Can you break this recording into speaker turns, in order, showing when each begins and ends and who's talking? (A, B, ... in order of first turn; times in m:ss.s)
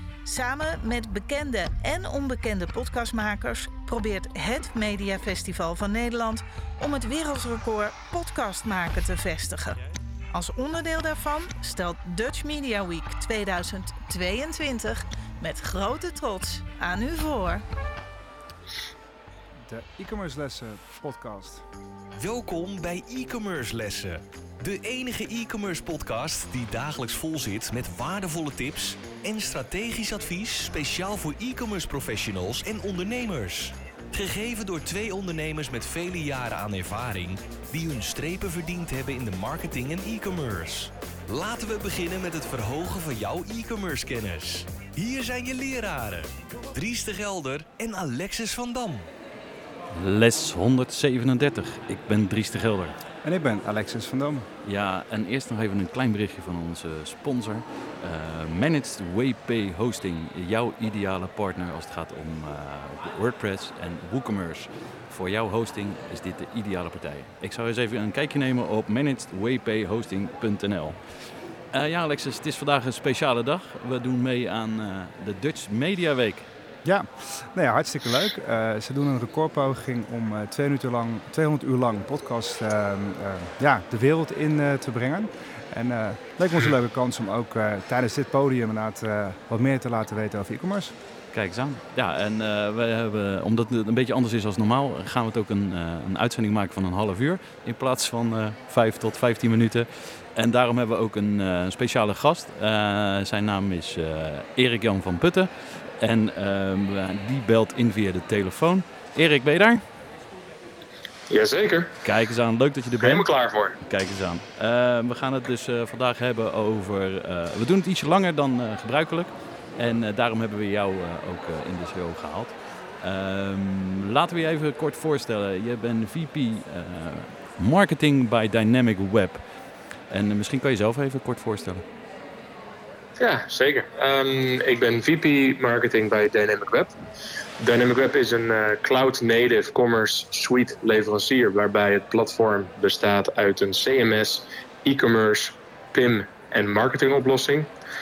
0:00.2-0:09.8 A
0:10.3-0:17.6 A
0:19.6-0:21.6 B
0:22.2-0:49.1 C
0:49.9-0:52.9 D
0:53.2-0:54.5 B
0:54.6-1:11.0 D
1:11.7-1:16.5 D
1:16.8-1:30.9 B
1:31.3-1:49.8 D
1:51.3-1:51.9 E
1:52.0-1:53.3 D
1:53.0-1:53.8 E
1:53.8-2:09.4 D
2:10.1-2:11.8 D
2:13.2-2:16.9 E
2:17.6-2:27.7 E